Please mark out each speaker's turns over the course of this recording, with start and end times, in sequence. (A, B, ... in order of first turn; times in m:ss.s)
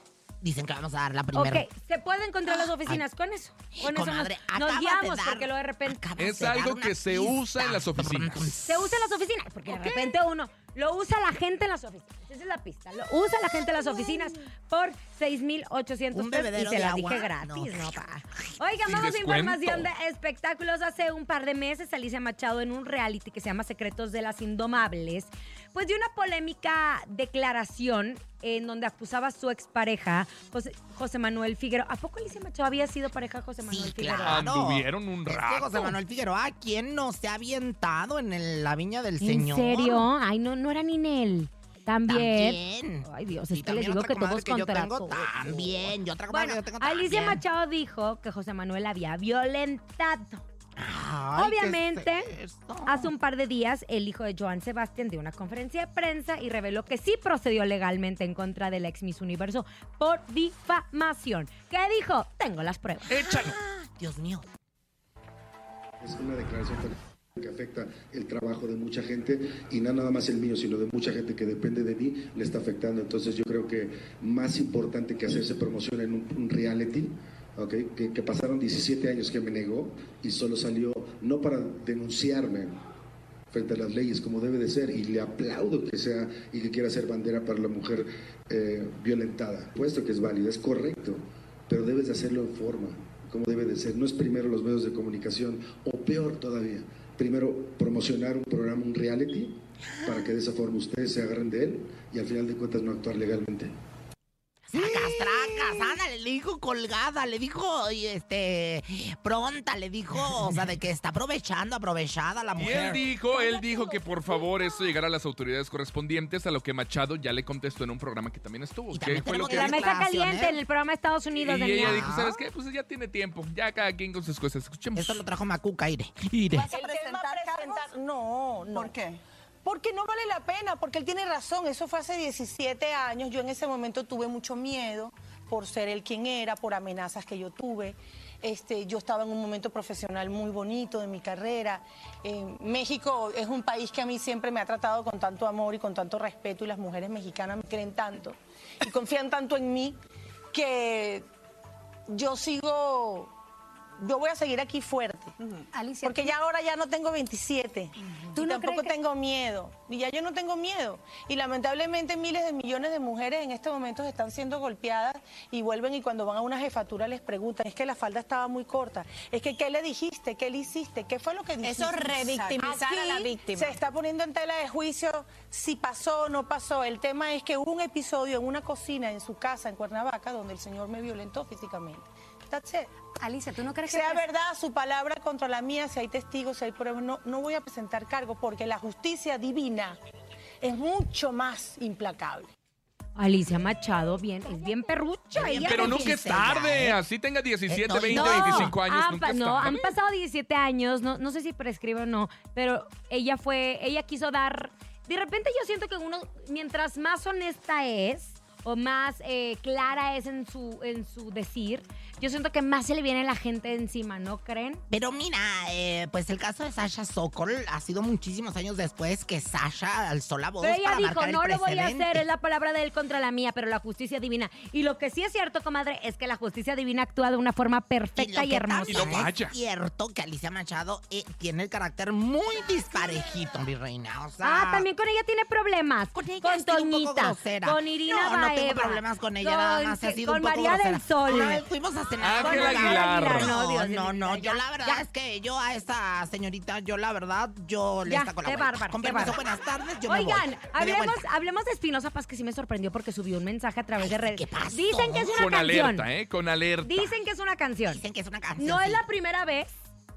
0:00.4-0:01.6 A
0:01.3-0:06.0 B
0:02.4-0:03.0 A
0:03.7-0:08.8 A
0:06.2-0:08.5 C
0:08.6-0:34.4 B
0:16.1-0:18.0 A
0:18.8-0:19.9 C
0:33.6-0:40.1 A
0:34.2-0:36.0 C
0:39.2-0:50.4 B
0:42.1-0:47.4 A
0:50.8-0:53.1 A
0:51.4-0:52.3 B
0:52.8-1:03.1 B
1:03.1-1:03.5 C
1:03.1-1:04.5 A
1:06.0-1:22.8 D
1:23.5-1:43.7 D
1:39.9-1:40.3 A
1:44.7-1:53.0 A
1:52.6-2:00.0 C
1:58.9-2:00.6 A
1:59.4-2:02.1 B
2:01.4-2:05.2 C
2:01.8-2:02.4 A
2:05.0-2:06.6 A
2:06.3-2:06.6 C
2:06.5-2:07.9 E
2:06.7-2:09.0 F
2:08.7-2:09.0 E
2:09.6-2:30.0 F
2:30.5-2:31.2 F
2:32.1-2:33.3 F
2:34.0-2:35.3 F
2:35.8-2:36.2 E
2:35.8-2:36.1 G
2:36.0-3:02.9 F
2:38.4-2:38.9 G
2:51.6-2:53.7 E
2:51.9-2:53.0 G
3:03.3-3:04.2 G
3:03.4-3:04.1 E
3:03.8-3:10.0 F
3:10.6-3:12.5 F
3:13.2-3:16.2 B
3:15.3-3:17.0 A
3:15.6-3:19.9 C
3:17.7-3:18.7 A
3:18.1-3:34.8 B
3:34.9-3:42.2 A
3:40.6-3:49.3 B
3:48.2-3:54.9 A
3:48.9-3:49.5 C
3:54.4-4:01.6 B
3:56.1-4:11.2 A
4:02.2-4:03.5 C
4:02.4-4:05.0 B
4:08.0-4:09.4 B
4:10.0-4:16.1 B
4:14.0-4:15.5 A
4:15.4-4:17.1 C
4:16.8-4:18.0 B
4:17.9-4:19.0 A
4:18.6-4:19.7 B